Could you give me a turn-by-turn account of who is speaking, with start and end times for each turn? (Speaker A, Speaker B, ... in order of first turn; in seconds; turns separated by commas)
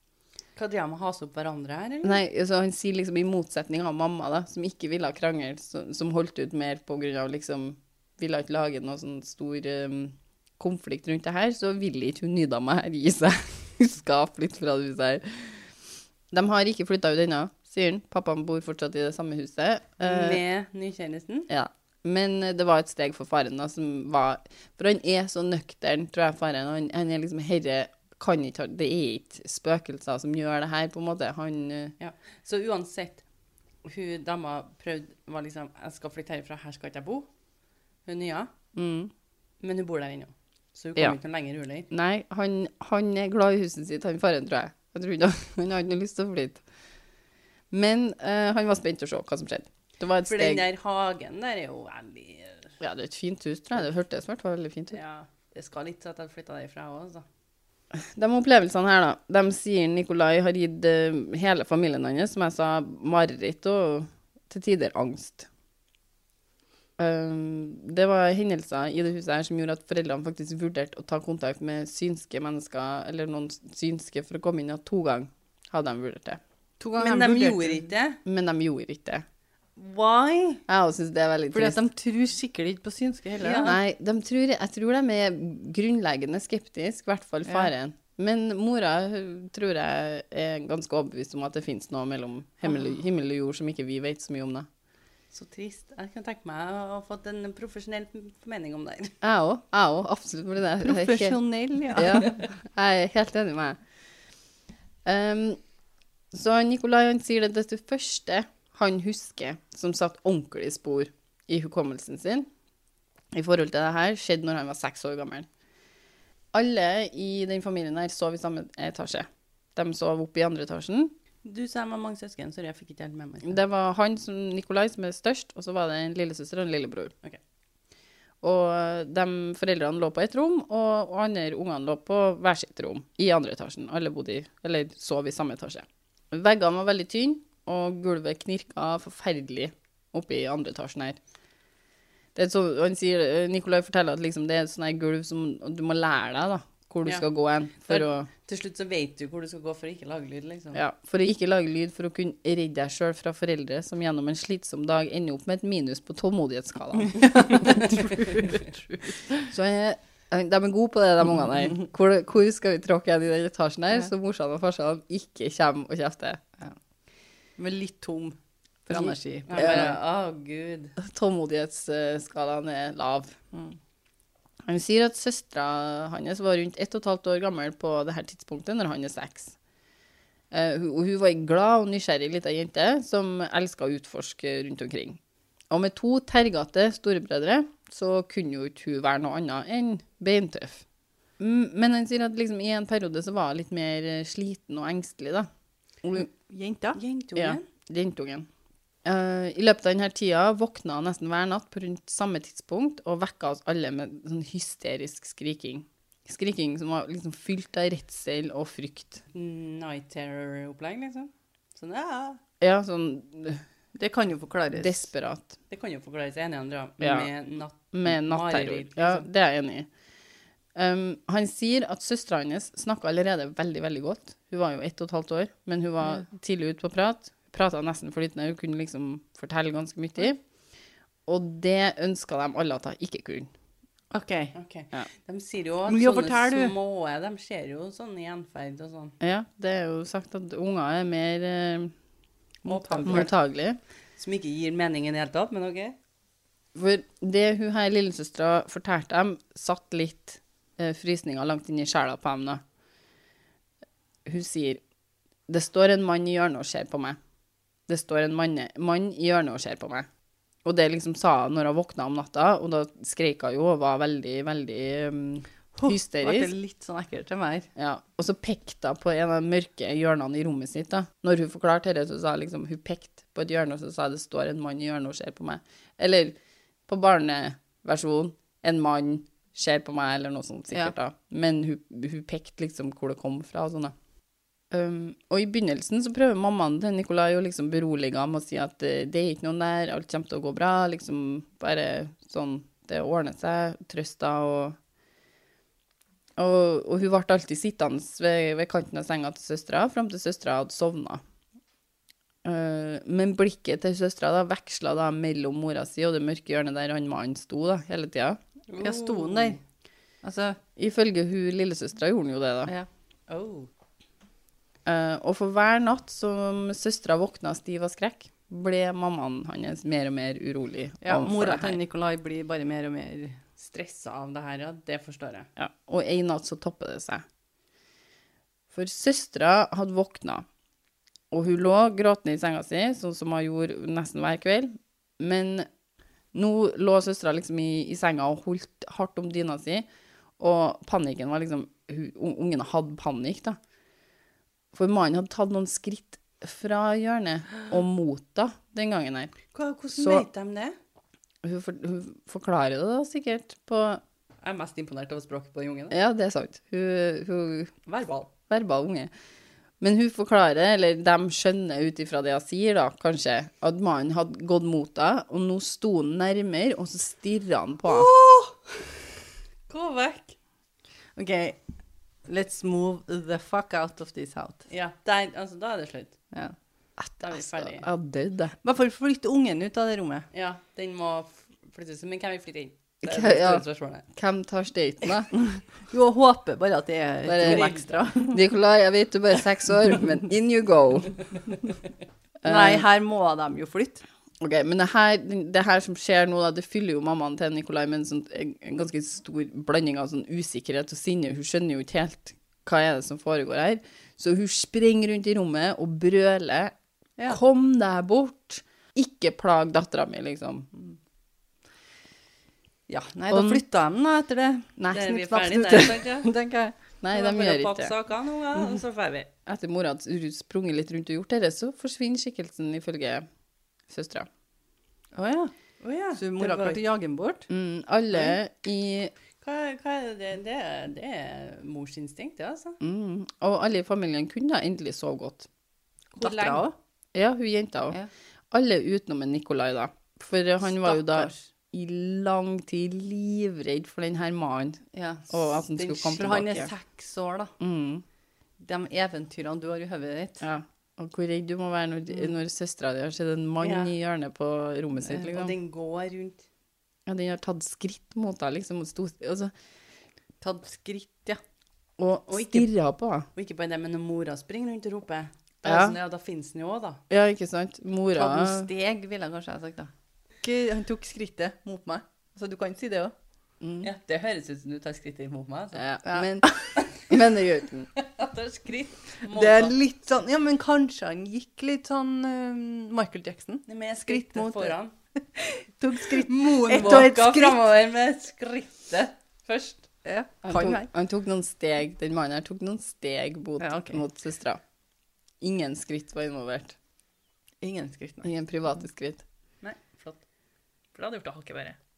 Speaker A: 0.6-2.2, Speaker B: 2.0-15.7, Speaker B: 16.3-20.4, Speaker A: 20.0-21.5, Speaker B: 21.5-31.9, Speaker A: 32.0-33.2, Speaker A: 33.8-37.3, Speaker A: 38.0-38.5, Speaker B: 38.7-39.1, Speaker A: 39.6-41.9, Speaker B: 41.9-46.6, Speaker B: 47.7-50.6, Speaker A: 50.2-52.7, Speaker B: 52.8-55.0, Speaker A: 54.9-57.2, Speaker B: 57.9-65.5, Speaker B: 67.0-76.4, Speaker C: 76.8-77.9, Speaker A: 77.0-78.2, Speaker B: 78.2-79.2, Speaker A: 79.8-80.6, Speaker B: 80.7-81.8, Speaker C: 81.5-83.7, Speaker A: 83.4-83.8, Speaker B: 83.6-94.7, Speaker C: 87.5-87.7, Speaker A: 95.3-99.2, Speaker B: 99.2-101.4, Speaker C: 100.8-102.3, Speaker B: 101.9-103.8, Speaker B: 105.0-105.6, Speaker B: 106.3-112.5, Speaker B: 113.3-115.5, Speaker B: 116.5-121.1, Speaker A: 121.4-123.6, Speaker B: 123.4-127.1, Speaker B: 128.4-141.2, Speaker B: 142.3-148.3, Speaker A: 147.9-150.8, Speaker B: 150.7-158.2, Speaker C: 157.0-159.5, Speaker B: 159.4-166.4, Speaker C: 167.6-170.0, Speaker B: 168.9-170.0, Speaker A: 169.5-170.9, Speaker B: 171.0-173.4, Speaker B: 174.7-179.6, Speaker B: 180.5-185.2, Speaker B: 185.7-190.8, Speaker B: 191.4-195.5, Speaker B: 196.0-196.3, Speaker C: 196.3-197.0, Speaker A: 196.9-197.6, Speaker B: 197.3-198.5, Speaker B: 199.0-209.2, Speaker A: 209.3-212.4, Speaker B: 212.6-213.6, Speaker C: 213.9-215.1, Speaker B: 214.7-215.5, Speaker A: 215.7-219.2, Speaker B: 217.0-217.3, Speaker B: 217.9-219.9, Speaker B: 220.8-230.4, Speaker B: 231.3-233.5, Speaker C: 234.1-234.6, Speaker A: 234.5-239.2, Speaker C: 235.9-236.8, Speaker B: 239.2-241.9, Speaker A: 242.7-243.3, Speaker B: 242.7-243.8, Speaker C: 242.8-243.3, Speaker A: 244.2-245.9, Speaker B: 246.7-252.6, Speaker B: 254.2-254.8, Speaker B: 255.5-257.2, Speaker B: 257.9-260.1, Speaker B: 260.6-266.5, Speaker C: 265.8-267.7, Speaker B: 267.8-276.4, Speaker B: 276.9-283.9, Speaker B: 284.7-294.8, Speaker B: 296.4-301.2, Speaker B: 302.4-308.4, Speaker A: 308.7-309.6, Speaker C: 308.8-309.6, Speaker C: 310.2-310.6, Speaker B: 310.8-312.7, Speaker A: 313.3-313.7, Speaker B: 314.9-321.8, Speaker C: 321.0-323.4, Speaker A: 323.6-325.5, Speaker B: 325.6-327.2, Speaker B: 328.7-330.4, Speaker B: 331.3-335.7, Speaker B: 336.3-339.9, Speaker B: 340.4-343.6, Speaker B: 344.7-349.3, Speaker A: 349.5-350.7, Speaker B: 349.9-350.3, Speaker B: 351.4-354.0, Speaker A: 354.4-355.9, Speaker B: 355.9-357.7, Speaker A: 357.9-358.3, Speaker B: 358.5-359.1, Speaker B: 359.8-368.1, Speaker C: 368.1-368.5, Speaker A: 369.7-370.4, Speaker C: 371.1-371.6, Speaker C: 372.2-374.6, Speaker A: 374.7-376.2, Speaker B: 377.0-378.5, Speaker A: 377.2-377.9, Speaker C: 378.6-380.3, Speaker A: 380.3-384.0, Speaker B: 383.0-385.4, Speaker C: 385.9-388.4, Speaker B: 387.2-391.4, Speaker A: 387.4-388.0, Speaker B: 392.4-392.8, Speaker C: 392.4-394.0, Speaker B: 394.4-406.7, Speaker B: 407.3-410.9, Speaker C: 412.9-416.8, Speaker B: 413.3-413.6, Speaker B: 414.8-415.9, Speaker A: 414.9-416.3, Speaker B: 417.0-417.9, Speaker A: 417.1-419.3, Speaker B: 419.4-423.2, Speaker B: 423.9-424.3, Speaker C: 425.1-425.5, Speaker A: 425.8-426.8, Speaker C: 426.1-427.5, Speaker B: 427.5-429.1, Speaker A: 429.4-432.8, Speaker B: 432.8-435.5, Speaker C: 436.2-436.7, Speaker A: 436.2-436.6, Speaker B: 437.1-438.0, Speaker B: 438.5-446.7, Speaker C: 440.7-441.4, Speaker C: 444.9-447.5, Speaker B: 447.6-448.0, Speaker C: 448.6-450.4, Speaker B: 450.4-455.5, Speaker A: 453.6-453.9, Speaker A: 455.1-456.4, Speaker B: 457.1-459.5, Speaker C: 460.4-461.4, Speaker B: 462.0-463.2, Speaker A: 462.3-462.7, Speaker A: 463.4-467.0, Speaker B: 465.6-466.0, Speaker B: 467.1-468.7, Speaker C: 468.1-469.9, Speaker C: 470.4-473.1, Speaker B: 473.6-473.9, Speaker A: 473.8-475.8, Speaker B: 475.7-477.9, Speaker C: 476.1-476.8, Speaker A: 478.0-479.7, Speaker C: 479.3-484.8, Speaker A: 483.7-484.9, Speaker C: 485.3-487.6, Speaker A: 486.1-489.9, Speaker C: 490.0-490.9, Speaker B: 490.4-494.6, Speaker C: 493.6-494.0, Speaker B: 495.4-496.8, Speaker C: 497.6-498.3, Speaker B: 498.2-499.2, Speaker A: 499.6-500.2, Speaker A: 500.9-501.8